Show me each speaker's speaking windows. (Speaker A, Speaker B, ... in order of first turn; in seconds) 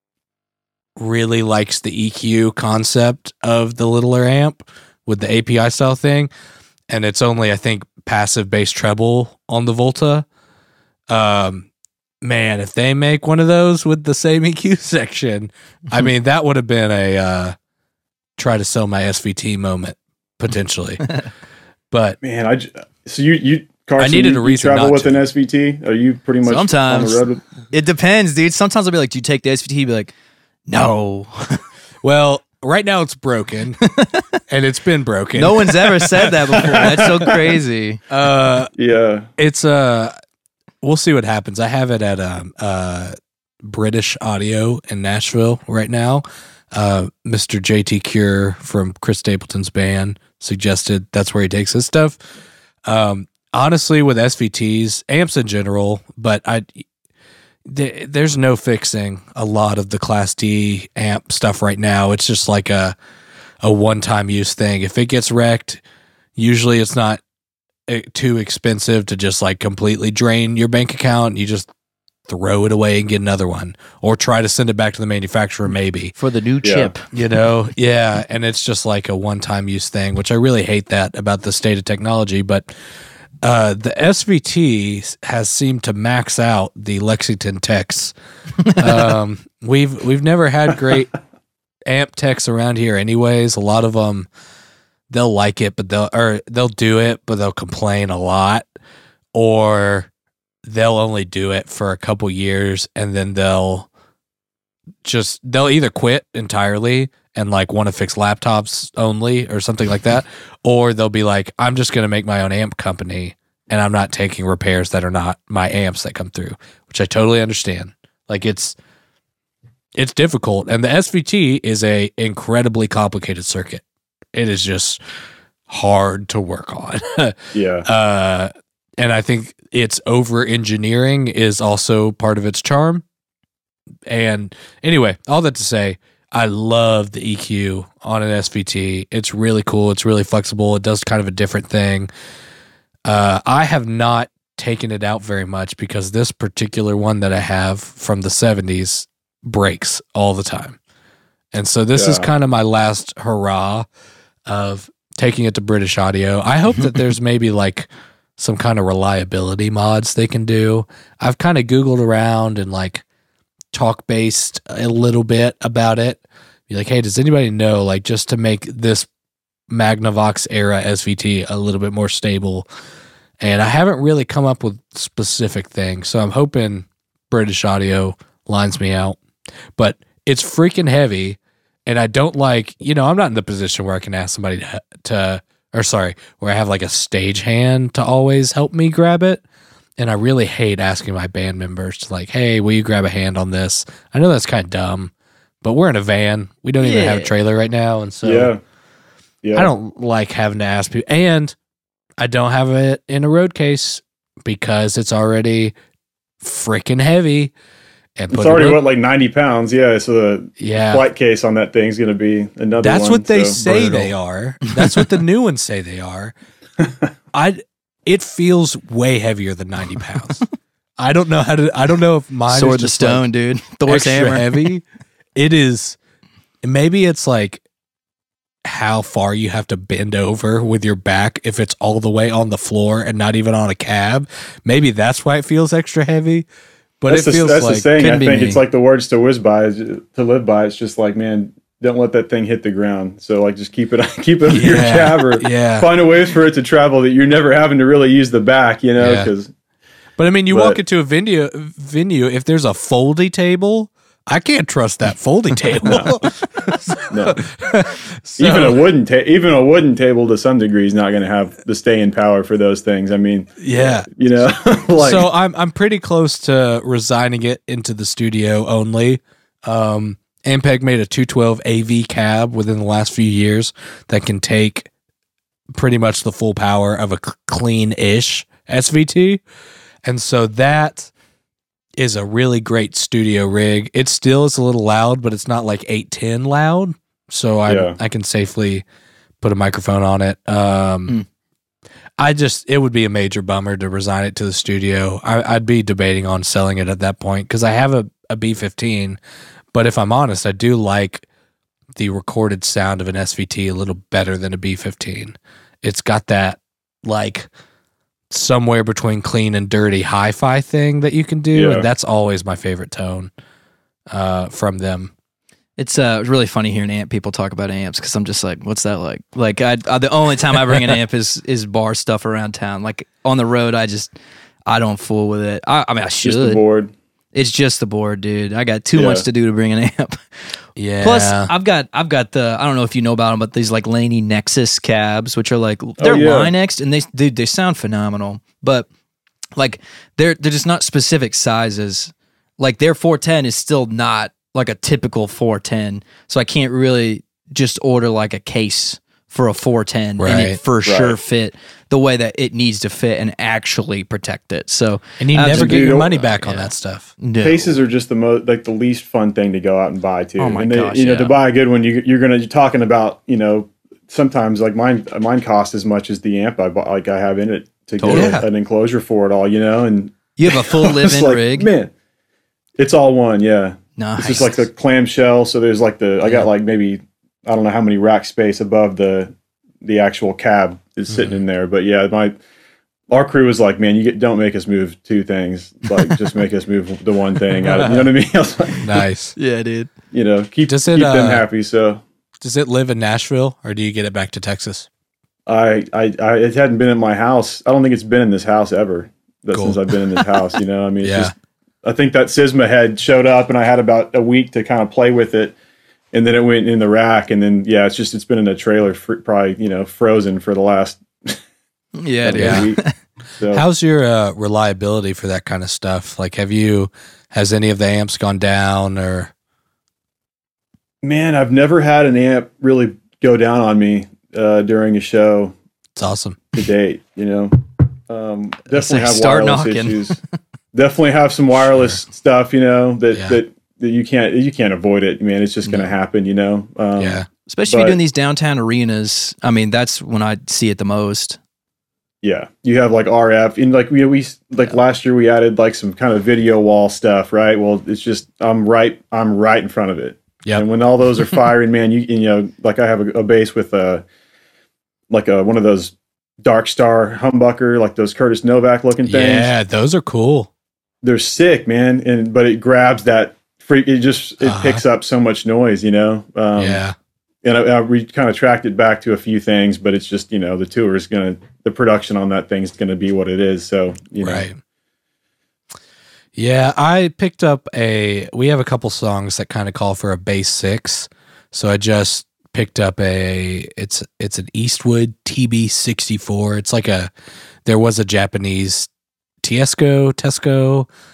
Speaker A: 1.0-6.3, 6.9-10.3, 11.1-11.7, 12.2-17.6, 18.4-21.1, 21.9-22.2, 24.0-25.2, 32.0-33.8, 34.5-37.1, 38.1-38.7, 39.4-40.1, 40.8-52.2, 52.9-56.9, 57.6-63.0, 63.6-65.8, 66.4-67.2, 67.9-71.7, 72.3-76.1, 77.1-82.7, 83.4-88.2, 88.7-91.1, 91.9-94.3, 95.1-98.7, 99.3-100.1, 100.6-103.9, 105.0-118.8, 120.0-125.0, 125.7-133.1, 134.1-142.1, 143.1-150.8, 151.5-153.9, 154.5-163.0, 163.7-169.1, 169.7-172.7, 173.4-179.2, 179.8-189.4, 190.0-198.5, 199.6-201.6, 202.2-205.8, 206.4-207.5, 208.2-208.8, 210.6-211.1, 212.8-216.3, 217.3-220.4, 221.0-223.2, 223.9-224.8, 225.3-226.0, 226.6-227.6, 228.6-236.5, 237.0-237.9, 244.5-245.9, 249.0-249.3, 250.2-258.8, 263.6-264.1, 265.0-274.9, 275.7-279.4, 280.1-281.1, 282.0-288.8, 289.4-291.2, 292.2-299.2, 299.7-301.3, 302.0-307.5, 308.3-313.3, 314.1-315.1, 330.8-331.5, 350.2-350.6, 355.2-357.1, 368.1-368.4, 381.1-381.4, 387.7-388.0, 388.8-389.4, 390.7-391.5, 392.4-394.9, 399.5-399.8, 401.0-401.3, 412.4-412.7, 413.5-419.3, 425.9-426.4, 433.1-433.4, 437.0-437.3, 459.1-460.5, 464.4-464.8, 466.6-467.0, 474.2-474.6, 476.4-487.1, 487.6-488.9, 489.4-490.9
Speaker B: 22.2-27.4, 36.6-37.5, 38.8-39.3, 76.6-76.9, 127.5-127.9, 151.9-152.3, 198.2-198.6, 199.4-199.7, 208.3-213.6, 237.1-249.5, 250.5-250.8, 255.8-256.1, 257.1-257.4, 258.4-265.3, 287.7-288.0, 311.5-311.9, 326.2-326.9, 329.0-329.2, 336.0-336.5, 350.9-351.2, 355.5-356.2, 357.4-371.9, 372.8-382.4, 383.1-388.9, 390.1-392.0, 395.5-401.3, 401.8-405.5, 406.1-411.4, 412.2-412.8, 413.4-413.6, 421.0-425.5, 426.5-430.2, 430.7-438.0, 442.2-454.1, 455.1-459.5, 461.0-466.8, 467.4-474.5
Speaker C: 26.4-30.1, 30.7-31.6, 33.8-34.2, 35.4-38.0, 76.2-77.0, 88.6-89.1, 196.8-197.3, 213.6-214.1, 214.7-215.0, 222.5-224.7, 238.0-238.6, 315.8-324.1, 324.7-326.6, 327.3-338.9, 339.6-357.8, 360.4-361.4, 368.0-368.5, 370.4-371.7, 374.0-374.7, 389.4-389.9, 412.0-412.9, 428.7-430.2, 437.5-441.4